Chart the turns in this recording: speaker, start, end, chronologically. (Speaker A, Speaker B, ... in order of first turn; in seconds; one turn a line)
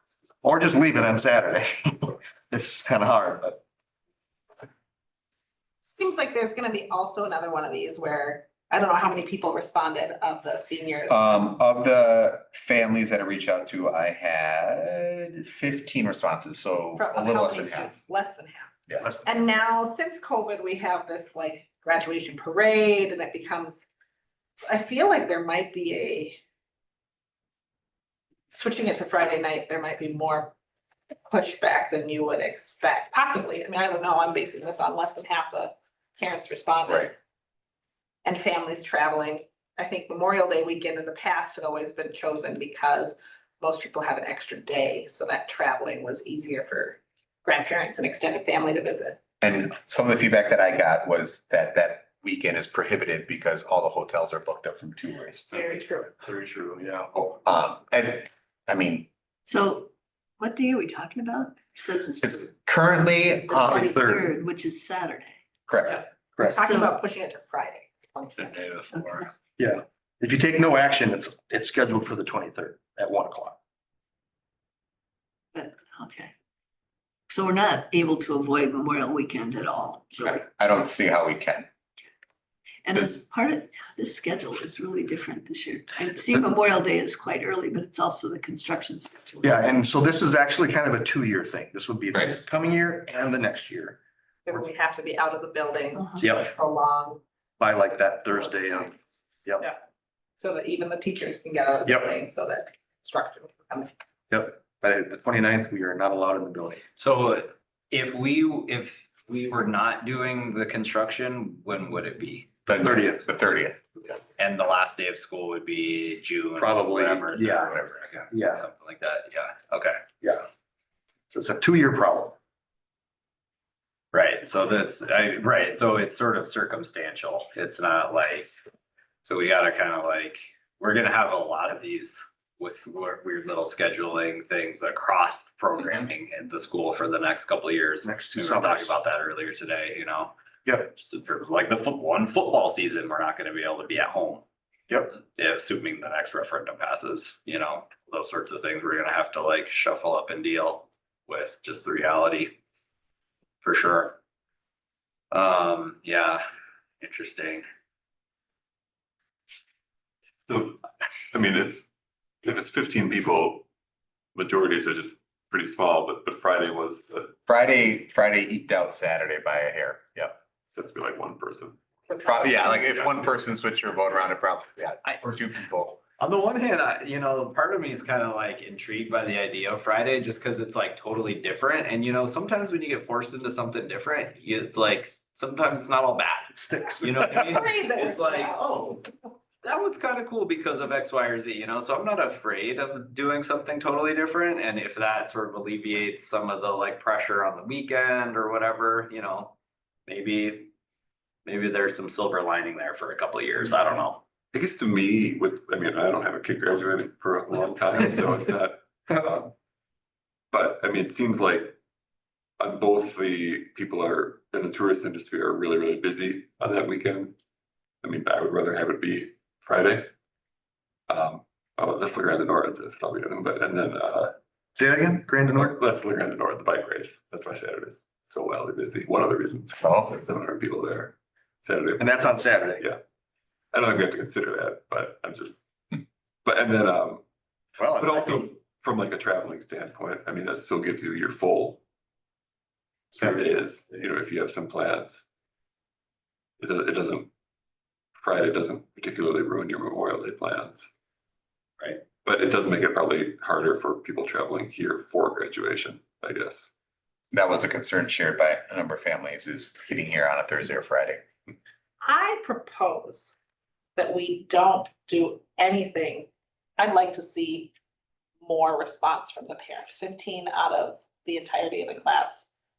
Speaker A: 0.4-3.6
Speaker B: 5.8-11.2
Speaker C: 11.1-17.9
Speaker B: 16.9-18.7
Speaker A: 19.0-19.4
Speaker B: 19.2-23.9
Speaker B: 24.6-26.4
Speaker B: 28.5-30.5
Speaker B: 31.3-37.1
Speaker B: 38.2-49.2
Speaker C: 49.4-55.6
Speaker B: 55.5-56.1
Speaker A: 56.2-57.4
Speaker C: 57.5-59.1
Speaker D: 59.5-62.5
Speaker C: 62.2-63.9
Speaker D: 63.5-65.3
Speaker A: 63.5-64.3
Speaker C: 65.7-66.0
Speaker B: 65.8-68.7
Speaker D: 66.6-66.9
Speaker A: 69.6-73.6
Speaker D: 75.5-76.3
Speaker D: 77.3-80.4
Speaker C: 80.2-81.7
Speaker D: 82.8-89.8
Speaker A: 89.4-94.0
Speaker B: 94.5-97.2
Speaker A: 96.2-96.5
Speaker A: 97.6-99.7
Speaker B: 100.4-103.9
Speaker A: 101.8-102.1
Speaker A: 104.3-106.8
Speaker E: 107.0-112.5
Speaker C: 112.7-114.2
Speaker A: 112.8-113.2
Speaker E: 114.4-120.0
Speaker A: 116.6-118.7
Speaker A: 121.3-122.3
Speaker E: 124.1-128.5
Speaker E: 129.2-140.3
Speaker A: 138.0-138.9
Speaker A: 140.6-140.9
Speaker E: 140.9-144.4
Speaker A: 144.9-145.2
Speaker E: 145.3-152.6
Speaker E: 153.6-154.2
Speaker E: 155.3-156.4
Speaker E: 157.0-157.7
Speaker F: 160.5-160.8
Speaker F: 161.3-161.9
Speaker F: 162.4-163.7
Speaker F: 164.3-167.3
Speaker C: 167.4-170.3
Speaker F: 170.7-172.6
Speaker B: 172.1-173.0
Speaker C: 172.2-176.0
Speaker E: 176.2-189.0
Speaker A: 186.5-187.6
Speaker B: 187.5-188.6
Speaker E: 189.6-199.5
Speaker E: 200.1-200.7
Speaker E: 201.4-204.2
Speaker F: 204.5-209.5
Speaker F: 210.5-211.8
Speaker F: 212.6-217.3
Speaker F: 218.0-220.1
Speaker F: 221.1-224.3
Speaker A: 224.8-225.7
Speaker F: 225.4-233.0
Speaker C: 229.8-230.2
Speaker A: 232.0-232.8
Speaker F: 233.7-237.2
Speaker A: 237.8-238.5
Speaker F: 237.9-241.8
Speaker F: 243.1-245.3
Speaker A: 243.2-244.0
Speaker F: 246.6-247.3
Speaker F: 248.2-250.9
Speaker F: 252.2-256.7
Speaker C: 257.3-261.2
Speaker B: 262.0-263.4
Speaker B: 263.9-267.7
Speaker B: 268.4-272.5